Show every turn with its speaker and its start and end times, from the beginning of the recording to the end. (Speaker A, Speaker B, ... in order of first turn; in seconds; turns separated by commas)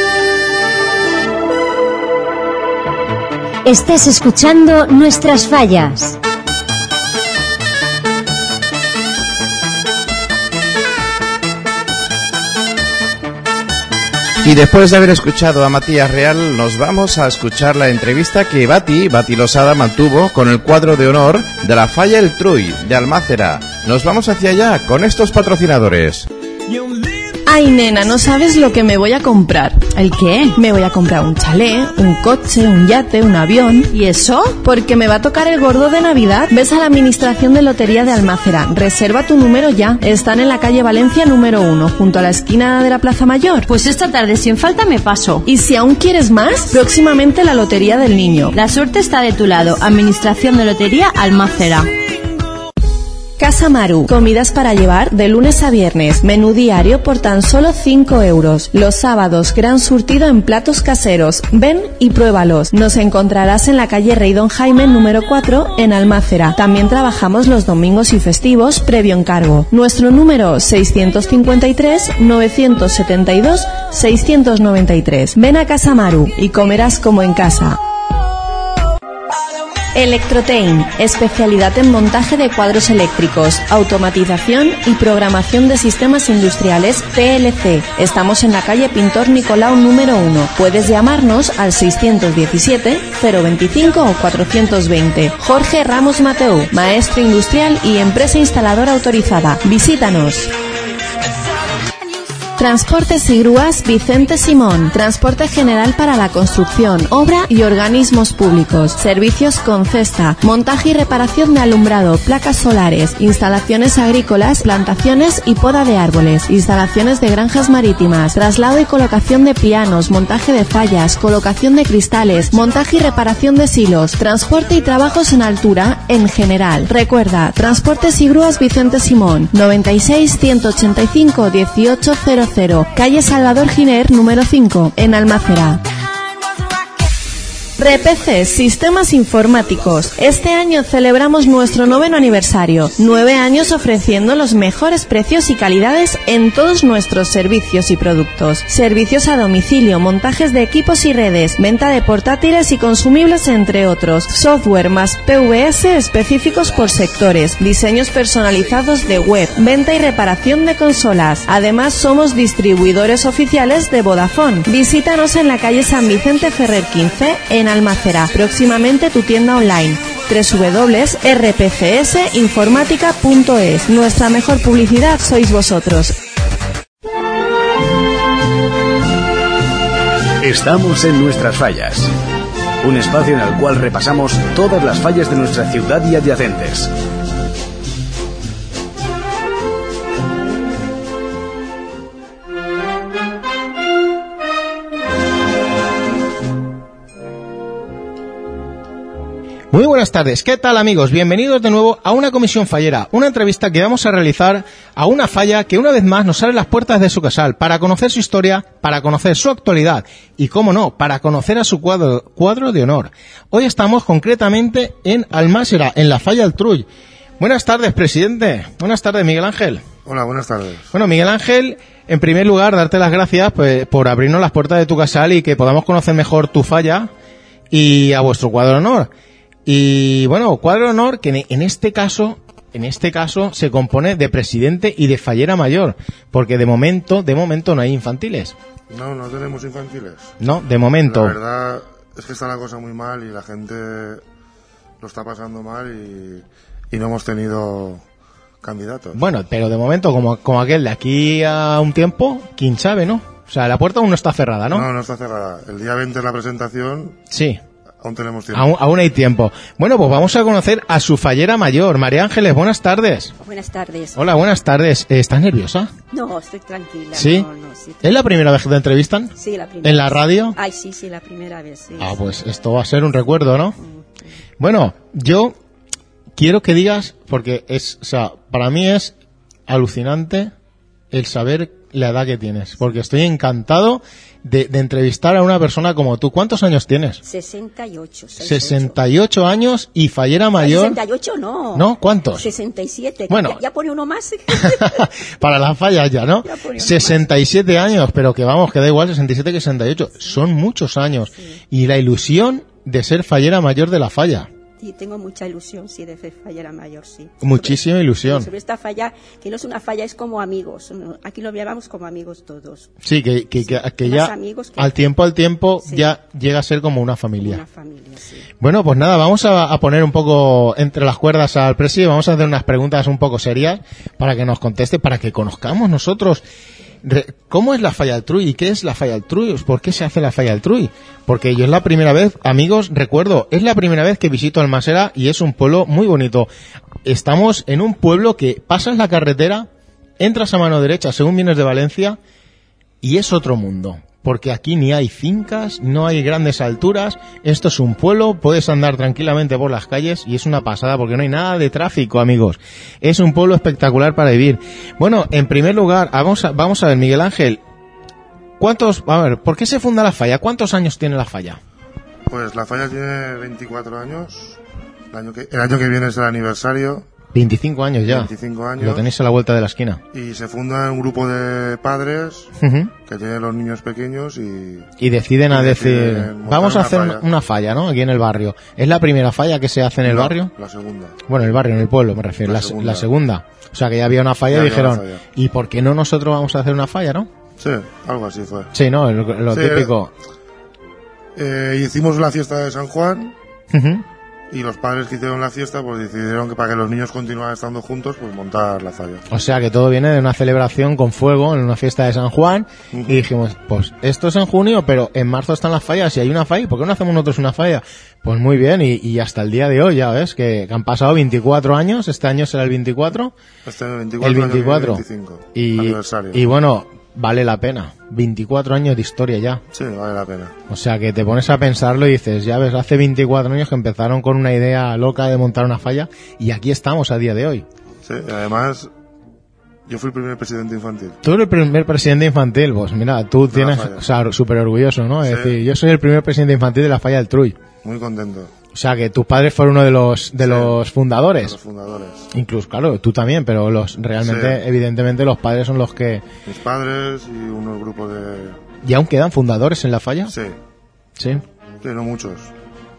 Speaker A: 3.6-6.2, Speaker B: 14.4-26.3, Speaker C: 27.4-33.9, Speaker D: 30.0-30.5, Speaker D: 33.9-34.5, Speaker C: 34.6-43.7, Speaker D: 43.7-45.5, Speaker C: 45.5-48.5, Speaker D: 48.5-51.9, Speaker C: 53.4-77.8, Speaker C: 79.9-100.5, Speaker C: 102.6-135.8, Speaker C: 137.8-176.2, Speaker E: 180.4-182.1, Speaker E: 182.8-186.9, Speaker F: 199.7-216.9, Speaker F: 217.4-219.8, Speaker G: 220.1-220.9, Speaker F: 220.9-227.1, Speaker F: 227.7-229.1, Speaker F: 229.7-238.6, Speaker G: 238.9-240.3, Speaker F: 240.4-241.4, Speaker G: 241.1-244.2, Speaker G: 245.0-248.0, Speaker G: 248.6-249.2, Speaker F: 249.1-254.9, Speaker G: 254.7-257.2, Speaker F: 257.3-257.6, Speaker G: 258.0-258.7, Speaker F: 258.5-263.3, Speaker H: 263.4-264.2, Speaker F: 264.1-265.9, Speaker H: 266.1-268.2, Speaker F: 267.1-267.5, Speaker F: 268.0-270.6, Speaker H: 269.4-272.3, Speaker F: 272.0-273.8, Speaker H: 273.8-274.1, Speaker F: 274.6-275.6, Speaker F: 276.4-279.1, Speaker F: 279.7-280.5, Speaker F: 281.1-287.2, Speaker H: 287.2-289.0, Speaker F: 288.4-291.0, Speaker H: 290.6-295.1, Speaker F: 291.7-292.5, Speaker F: 293.3-293.6, Speaker F: 294.5-304.5, Speaker H: 296.4-297.3, Speaker H: 304.8-312.9, Speaker F: 307.4-308.5, Speaker F: 313.0-317.6, Speaker H: 313.6-314.9, Speaker H: 315.8-316.1, Speaker H: 317.4-318.5, Speaker F: 318.6-326.4, Speaker F: 327.0-336.5, Speaker F: 337.0-339.7, Speaker F: 340.2-342.2, Speaker F: 343.0-357.6, Speaker F: 358.6-361.6, Speaker G: 362.3-364.6, Speaker G: 365.1-367.1, Speaker F: 367.3-370.0, Speaker G: 368.0-369.1, Speaker G: 370.1-372.5, Speaker F: 372.6-372.9, Speaker G: 373.1-374.9, Speaker F: 375.0-380.5, Speaker G: 375.5-377.2, Speaker G: 380.0-381.4, Speaker F: 381.3-387.3, Speaker G: 382.4-383.1, Speaker G: 384.5-385.2, Speaker G: 387.6-388.7, Speaker F: 388.7-390.1, Speaker G: 389.5-389.9, Speaker G: 391.4-393.3, Speaker F: 393.7-394.1, Speaker G: 394.5-399.2, Speaker F: 399.3-413.3, Speaker G: 402.9-403.2, Speaker G: 413.6-416.4, Speaker F: 414.2-415.0, Speaker F: 415.5-419.6, Speaker G: 419.7-420.5, Speaker F: 420.7-427.6, Speaker G: 428.0-428.9, Speaker G: 429.9-431.2, Speaker F: 431.2-437.6, Speaker G: 433.5-434.0, Speaker G: 435.2-435.6, Speaker G: 437.8-438.5, Speaker F: 438.7-441.6, Speaker G: 440.4-440.8, Speaker G: 441.4-442.3, Speaker F: 442.3-446.2, Speaker G: 444.2-444.6, Speaker G: 446.5-448.6, Speaker F: 448.8-450.3, Speaker G: 450.3-450.6, Speaker F: 451.2-451.4, Speaker G: 451.8-452.5